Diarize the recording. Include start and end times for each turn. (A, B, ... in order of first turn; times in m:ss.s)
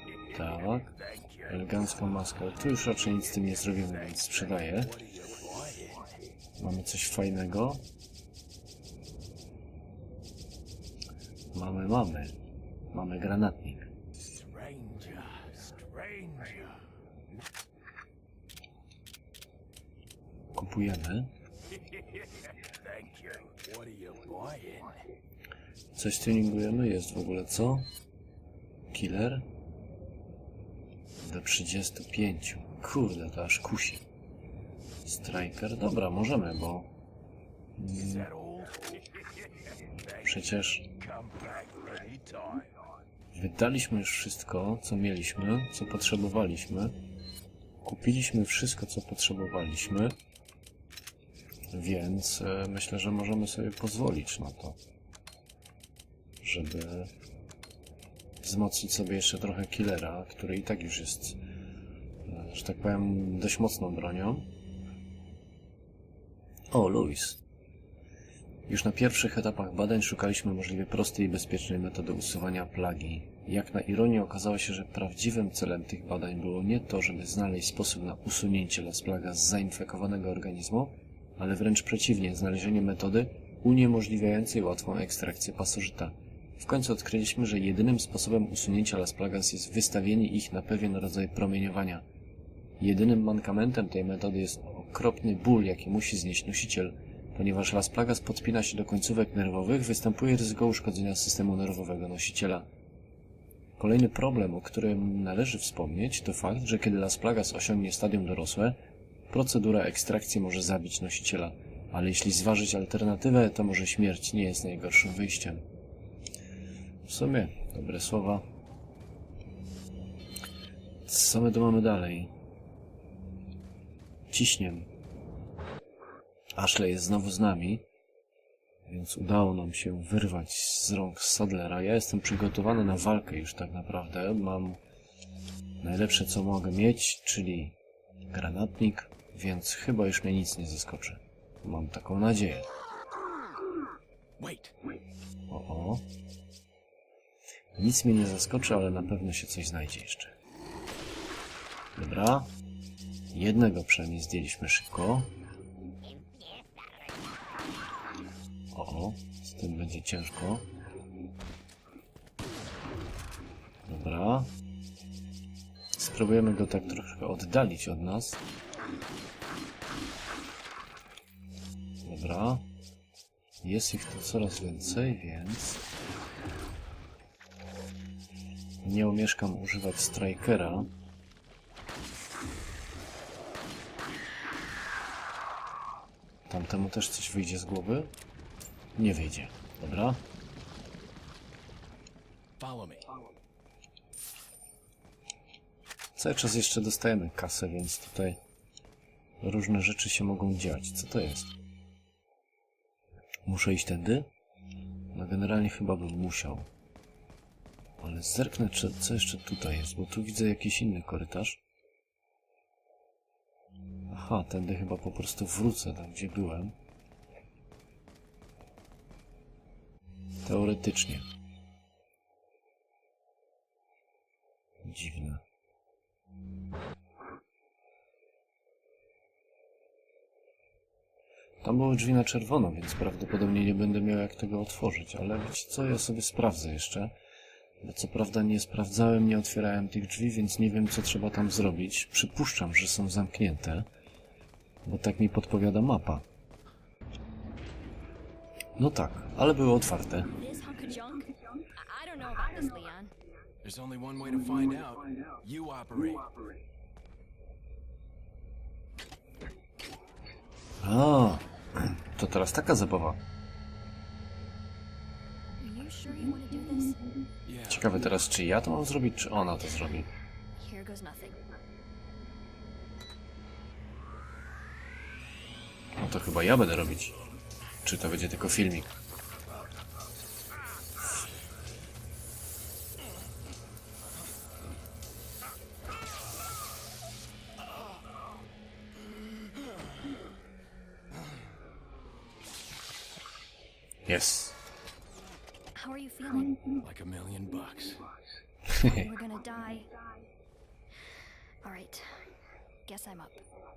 0:00.3-0:01.0 A
0:01.1-0:01.5 B
0:01.5-0:05.0 A
0:04.7-0:06.2 B
0:06.6-0:07.8 A
0:11.5-0:12.4 A
0:12.9-0:13.9 A
0:14.2-0:16.8 B
0:20.5-0:21.3 A
0:22.1-0:25.1 B
0:25.9-0:27.9 A
0:28.9-0:29.4 A
0:31.2-0:34.0 A
0:35.0-0:36.9 A
0:37.8-0:38.3 A
0:37.9-0:40.3 B
0:40.2-0:40.9 A
0:40.9-0:42.7 B
0:43.3-0:47.0 A
0:47.8-0:50.2 A
0:51.7-0:54.8 A
0:56.4-0:57.1 A
0:58.4-1:01.4 A
1:02.2-1:04.5 A
1:06.7-1:07.4 A
1:08.7-1:32.0 A
1:32.8-1:42.7 A
1:43.8-1:48.8 A
1:49.3-1:55.6 A
1:57.0-1:58.4 A
2:01.0-2:02.3 A
2:04.3-2:04.9 A
2:06.6-2:07.8 A
2:08.8-2:14.8 A
2:15.8-2:17.8 A
2:18.3-2:22.7 A
2:24.4-2:24.8 B
2:25.5-2:26.1 A
2:27.7-2:30.3 A
2:32.0-2:32.5 A
2:33.3-2:35.3 A
2:38.7-2:40.7 A
2:43.8-2:44.5 A
2:46.0-2:48.4 A
2:52.0-2:52.6 A
2:53.6-2:55.8 A
2:58.8-3:00.9 A
3:06.5-3:08.1 A
3:09.0-3:10.2 A
3:12.6-3:13.1 B
3:16.2-3:18.4 A
3:19.4-3:21.6 A
3:23.4-3:24.3 A
3:25.1-3:26.7 A
3:28.0-3:31.6 A
3:34.1-3:36.8 A
3:40.4-3:41.3 A
3:44.8-3:45.4 A
3:51.6-3:57.1 A
3:57.8-4:03.9 A
4:04.8-4:06.2 A
4:08.8-4:10.3 A
4:10.3-4:13.1 C
4:13.6-4:16.5 B
4:20.8-4:23.2 A
4:25.6-4:27.0 C
4:27.4-4:27.9 B
4:27.7-4:30.1 A
4:30.6-4:31.4 C
4:36.0-4:37.1 A
4:37.8-4:38.9 A
4:54.0-4:54.5 A
4:55.7-4:56.6 C
4:56.8-4:58.1 B
4:58.7-4:59.0 A
4:58.8-4:59.9 C
5:01.6-5:02.2 C
5:02.8-5:03.4 C